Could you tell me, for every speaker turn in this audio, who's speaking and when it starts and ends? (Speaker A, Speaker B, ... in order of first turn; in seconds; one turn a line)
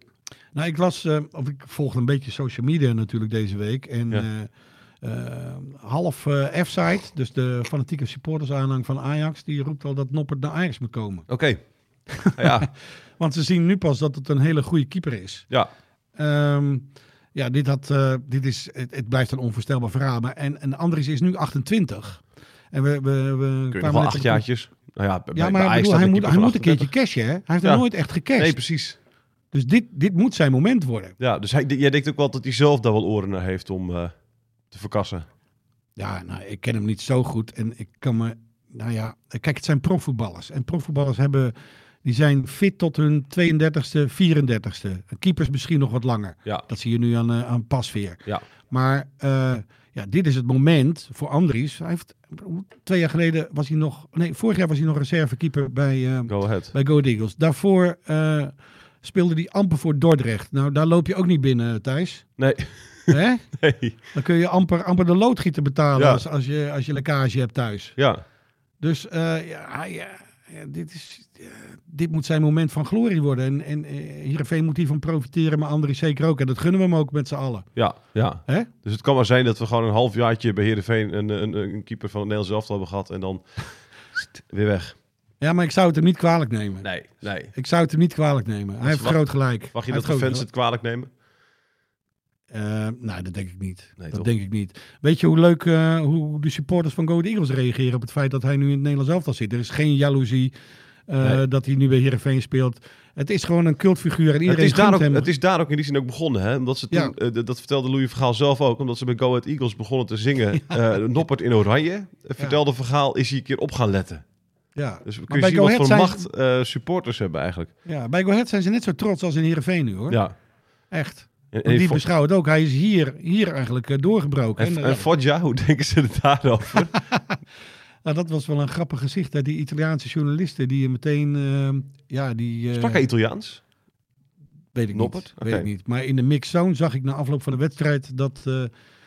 Speaker A: 0.5-11.3
Speaker B: 11.3-11.6
Speaker A: 12.1-15.5
Speaker B: 12.3-12.7
Speaker A: 16.1-24.4
Speaker B: 23.7-26.9
Speaker A: 25.3-28.6
Speaker B: 27.6-29.0
Speaker A: 29.5-31.1
Speaker B: 31.2-34.1
Speaker B: 34.7-35.2
Speaker A: 36.0-62.4
Speaker B: 56.3-56.7
Speaker B: 62.4-64.0
Speaker A: 63.1-63.6
Speaker A: 64.1-68.0
Speaker B: 66.0-66.2
Speaker B: 68.0-68.2
Speaker A: 68.8-77.7
Speaker B: 77.7-85.0
Speaker A: 85.4-90.5
Speaker B: 86.8-87.5
Speaker B: 88.8-91.1
Speaker A: 92.5-100.5
Speaker B: 94.0-94.3
Speaker A: 101.1-105.3
Speaker B: 104.5-114.2
Speaker A: 114.7-116.3
Speaker B: 115.0-117.7
Speaker A: 117.8-120.2
Speaker B: 120.1-120.3
Speaker A: 120.9-125.0
Speaker B: 121.5-122.0
Speaker B: 124.6-127.0
Speaker A: 128.0-133.0
Speaker B: 132.7-133.6
Speaker A: 134.7-138.7
Speaker B: 134.9-135.7